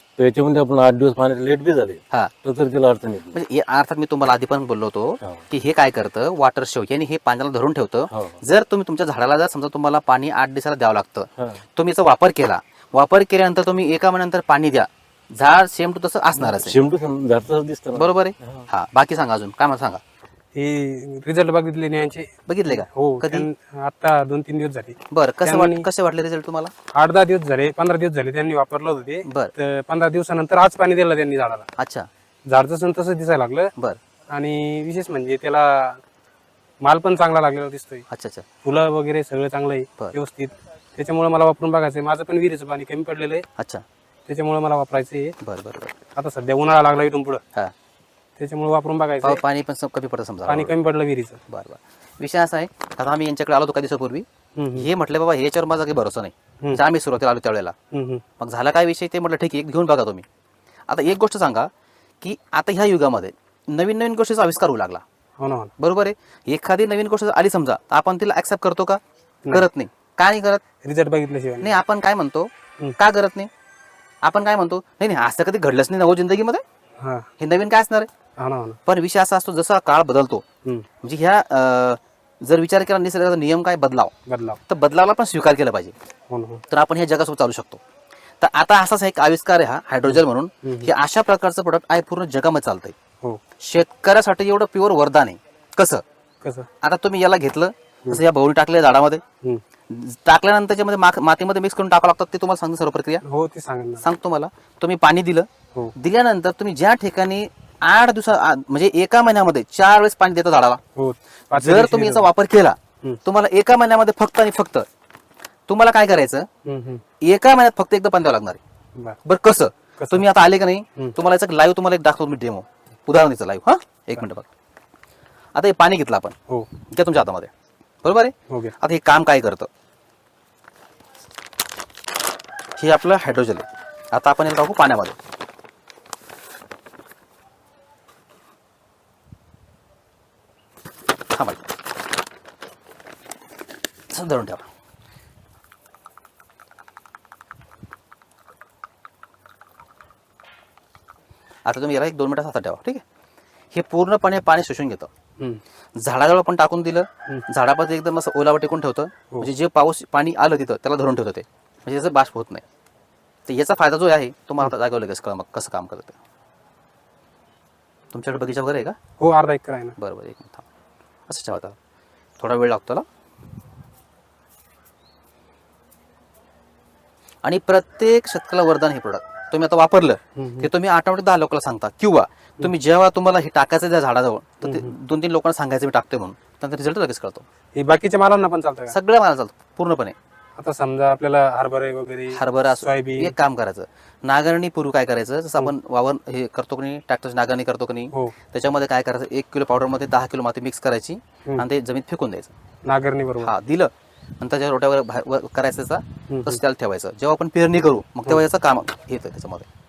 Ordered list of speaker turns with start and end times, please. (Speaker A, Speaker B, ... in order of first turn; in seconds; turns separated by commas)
Speaker A: 0.2-3.3, Speaker B: 3.3-16.8, Speaker A: 8.1-8.4, Speaker A: 16.4-18.6, Speaker B: 17.9-20.0, Speaker C: 20.5-25.9, Speaker B: 22.5-23.4, Speaker B: 25.1-26.7, Speaker C: 26.9-31.6, Speaker B: 31.8-32.1, Speaker C: 32.5-33.7, Speaker C: 34.3-36.0, Speaker C: 36.8-38.0, Speaker B: 38.1-38.5, Speaker C: 38.6-43.4, Speaker B: 43.6-43.8, Speaker C: 44.3-45.3, Speaker B: 45.4-45.9, Speaker C: 46.1-47.4, Speaker C: 48.4-49.4, Speaker B: 49.2-50.7, Speaker C: 50.4-51.4, Speaker B: 51.5-57.7, Speaker C: 54.5-54.9, Speaker C: 57.9-58.2, Speaker B: 58.4-60.2, Speaker B: 60.9-61.7, Speaker B: 62.2-65.0, Speaker C: 65.4-65.7, Speaker B: 65.8-70.6, Speaker C: 70.8-71.8, Speaker B: 71.6-73.5, Speaker B: 74.2-76.6, Speaker C: 77.0-77.3, Speaker B: 77.4-78.1, Speaker C: 78.4-78.8, Speaker B: 78.8-80.5, Speaker B: 81.0-84.1, Speaker C: 84.3-84.6, Speaker B: 84.7-85.9, Speaker C: 86.3-86.6, Speaker B: 86.7-87.8, Speaker B: 88.4-92.9, Speaker C: 90.1-90.9, Speaker B: 93.6-96.0, Speaker C: 96.4-96.7, Speaker B: 96.8-99.2, Speaker B: 99.9-103.2, Speaker C: 103.2-104.0, Speaker B: 104.0-110.8, Speaker C: 111.0-112.3, Speaker B: 111.5-114.8, Speaker B: 115.7-116.5, Speaker C: 116.6-117.0, Speaker B: 117.2-118.6, Speaker B: 119.2-124.5, Speaker C: 120.0-120.3, Speaker B: 125.5-126.3, Speaker B: 126.9-127.5, Speaker B: 128.0-129.7, Speaker C: 128.5-128.8, Speaker B: 132.8-135.2, Speaker B: 141.3-141.6, Speaker B: 144.1-144.7, Speaker B: 151.7-153.0, Speaker B: 153.7-155.1, Speaker B: 156.0-162.6, Speaker B: 163.5-166.2, Speaker B: 168.1-169.0, Speaker C: 169.2-169.9, Speaker B: 170.0-170.6, Speaker B: 171.3-171.7, Speaker B: 172.4-173.0, Speaker B: 177.4-187.4, Speaker C: 180.3-180.7, Speaker C: 184.6-184.9, Speaker C: 187.8-188.9, Speaker B: 188.9-190.2, Speaker C: 190.6-193.3, Speaker B: 192.3-202.5, Speaker C: 202.8-203.5, Speaker B: 203.4-209.7, Speaker C: 206.3-206.6